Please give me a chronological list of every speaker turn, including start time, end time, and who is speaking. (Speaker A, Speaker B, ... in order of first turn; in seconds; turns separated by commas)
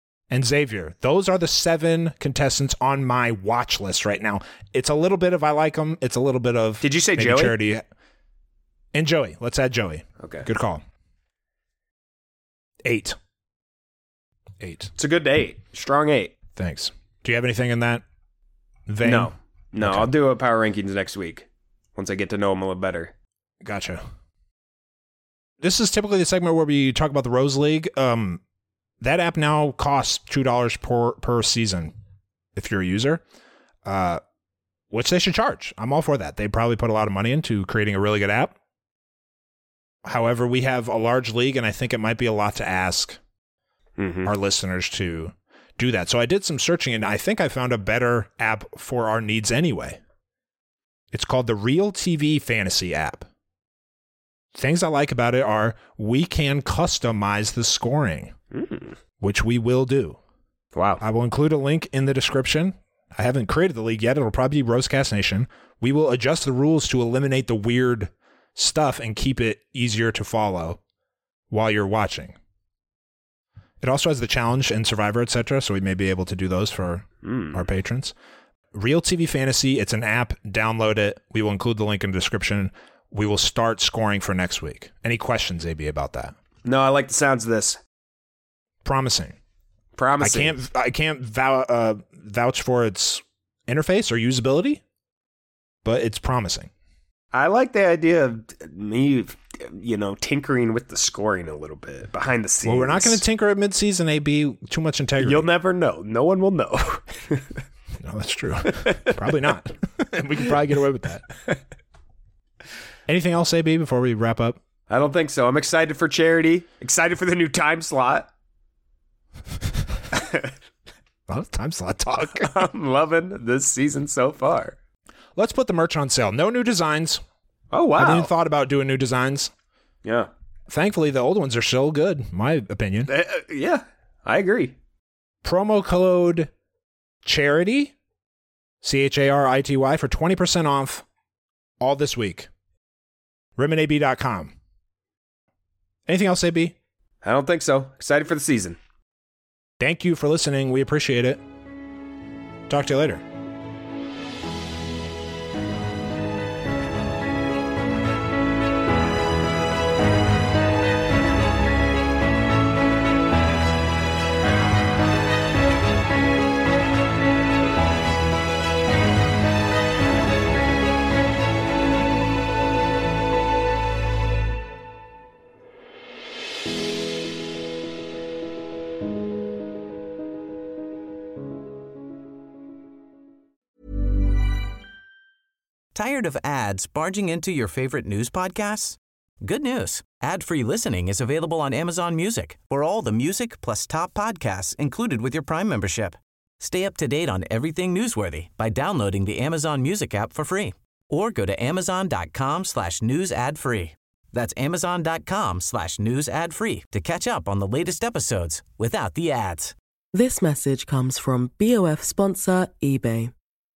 Speaker A: 0.3-7.8, Speaker B: 6.8-7.6, Speaker A: 8.9-10.8, Speaker B: 10.2-10.5, Speaker A: 12.8-13.2, Speaker A: 14.6-14.9, Speaker B: 15.0-16.4, Speaker A: 16.6-18.0, Speaker A: 18.9-20.1, Speaker B: 19.0-23.1, Speaker A: 23.6-24.0, Speaker A: 25.6-28.4, Speaker A: 29.0-31.9, Speaker A: 32.6-33.2, Speaker A: 33.9-34.2, Speaker A: 34.9-38.5, Speaker A: 40.0-43.2, Speaker B: 44.0-44.3, Speaker A: 44.2-50.0, Speaker A: 51.1-53.3, Speaker A: 54.5-58.3, Speaker B: 58.5-59.0, Speaker A: 59.2-60.2, Speaker B: 60.7-61.0, Speaker A: 61.0-70.8, Speaker A: 71.5-72.4, Speaker A: 73.8-78.1, Speaker B: 77.2-77.7, Speaker A: 78.7-86.3, Speaker B: 86.6-87.8, Speaker A: 88.8-89.3, Speaker B: 90.0-90.6, Speaker A: 90.2-94.8, Speaker A: 95.8-96.7, Speaker B: 97.3-103.2, Speaker A: 102.6-105.5, Speaker B: 105.2-107.5, Speaker A: 108.0-111.3, Speaker A: 113.1-114.6, Speaker B: 114.9-118.3, Speaker B: 120.1-120.5, Speaker A: 121.3-122.6, Speaker B: 122.1-124.8, Speaker A: 125.4-127.2, Speaker B: 127.7-128.3, Speaker A: 128.0-129.5, Speaker B: 130.0-130.3, Speaker A: 130.7-133.1, Speaker B: 133.1-134.8, Speaker A: 135.4-136.5, Speaker A: 137.2-137.9, Speaker A: 138.8-141.0, Speaker A: 141.8-142.5, Speaker A: 143.6-144.5, Speaker A: 146.1-146.8, Speaker B: 147.2-148.8, Speaker A: 149.8-151.4, Speaker A: 152.7-153.2, Speaker C: 185.9-209.7, Speaker D: 210.1-213.3